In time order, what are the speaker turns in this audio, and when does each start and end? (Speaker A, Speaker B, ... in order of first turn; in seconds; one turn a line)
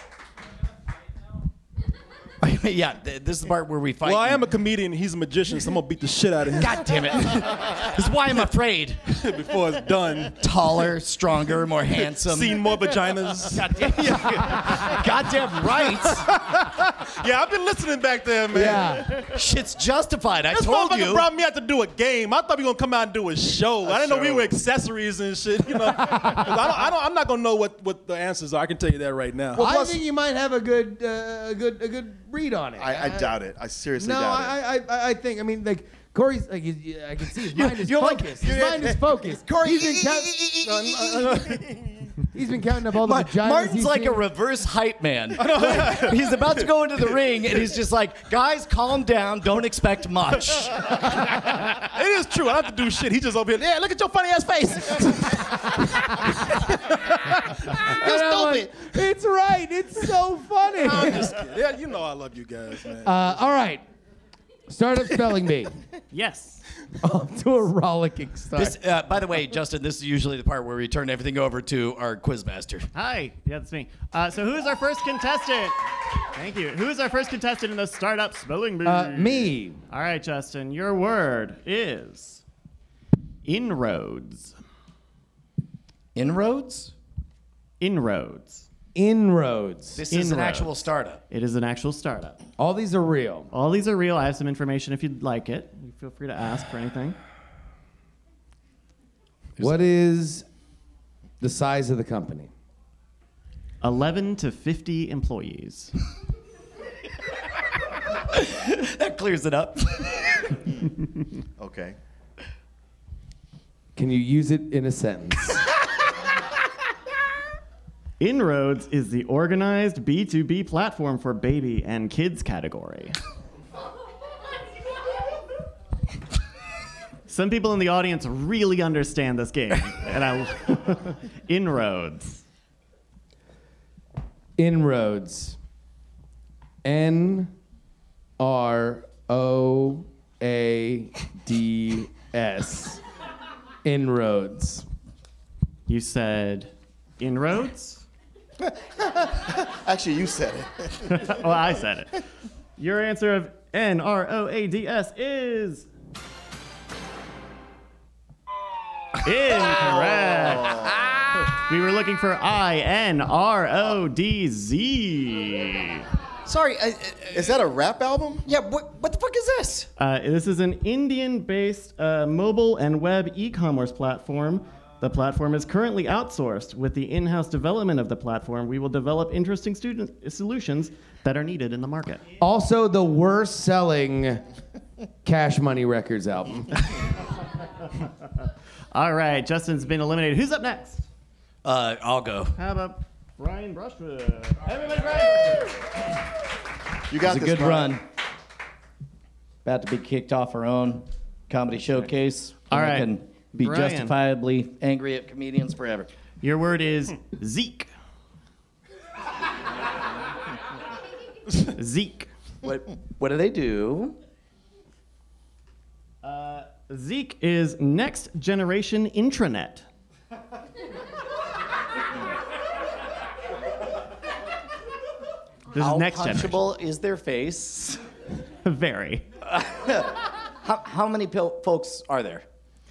Speaker A: 2.4-4.4
Speaker B: 4.0-6.9
Speaker A: 6.5-9.1
Speaker B: 9.1-10.4
Speaker A: 10.4-12.9
Speaker B: 12.1-13.8
Speaker A: 13.5-16.3
Speaker B: 16.0-19.3
Speaker C: 18.5-19.1
Speaker A: 19.3-21.3
Speaker B: 20.5-29.9
Speaker D: 23.8-24.5
Speaker C: 29.5-33.3
Speaker D: 32.8-34.5
Speaker C: 34.0-40.3
Speaker A: 37.5-38.8
Speaker D: 38.6-39.0
Speaker A: 39.5-41.0
Speaker B: 40.7-41.6
Speaker C: 42.3-44.2
Speaker A: 43.0-51.0
Speaker B: 45.4-46.6
Speaker B: 50.9-55.8
Speaker C: 57.6-61.4
Speaker A: 57.9-58.7
Speaker B: 60.8-63.3
Speaker C: 63.0-63.8
Speaker C: 64.7-65.7
Speaker E: 66.1-66.6
Speaker C: 67.0-68.8
Speaker A: 68.5-72.9
Speaker E: 72.9-75.8
Speaker E: 76.3-82.4
Speaker C: 78.8-79.8
Speaker E: 83.4-84.5
Speaker A: 86.1-86.9
Speaker E: 87.8-88.7
Speaker C: 88.9-90.0
Speaker A: 89.9-91.2
Speaker E: 90.1-90.7
Speaker E: 91.3-92.4
Speaker C: 92.6-93.5
Speaker E: 93.5-97.2
Speaker C: 99.6-100.5
Speaker C: 101.4-102.5
Speaker E: 103.8-105.9
Speaker A: 108.3-110.6
Speaker D: 111.6-112.0
Speaker C: 114.0-115.6
Speaker E: 118.2-123.2
Speaker E: 127.3-132.4
Speaker C: 134.6-135.6
Speaker C: 136.8-137.5
Speaker C: 138.4-143.0
Speaker C: 143.8-144.8
Speaker E: 145.9-148.0
Speaker D: 148.7-151.3
Speaker E: 151.1-152.2
Speaker E: 152.8-155.9
Speaker E: 159.2-166.0
Speaker D: 159.9-160.9
Speaker A: 166.4-167.5
Speaker D: 167.3-168.5
Speaker A: 168.4-169.9
Speaker E: 170.0-182.2
Speaker C: 182.4-184.4
Speaker C: 185.2-186.7
Speaker E: 188.9-191.0
Speaker A: 191.6-192.5
Speaker E: 192.6-195.9
Speaker D: 197.1-198.0
Speaker A: 197.2-198.0
Speaker A: 199.6-206.1
Speaker E: 202.7-204.2
Speaker E: 206.4-207.9
Speaker E: 211.7-212.3
Speaker A: 212.6-214.2
Speaker E: 216.2-219.8
Speaker E: 225.7-226.7
Speaker A: 225.7-228.0
Speaker E: 228.6-229.2
Speaker A: 229.4-232.4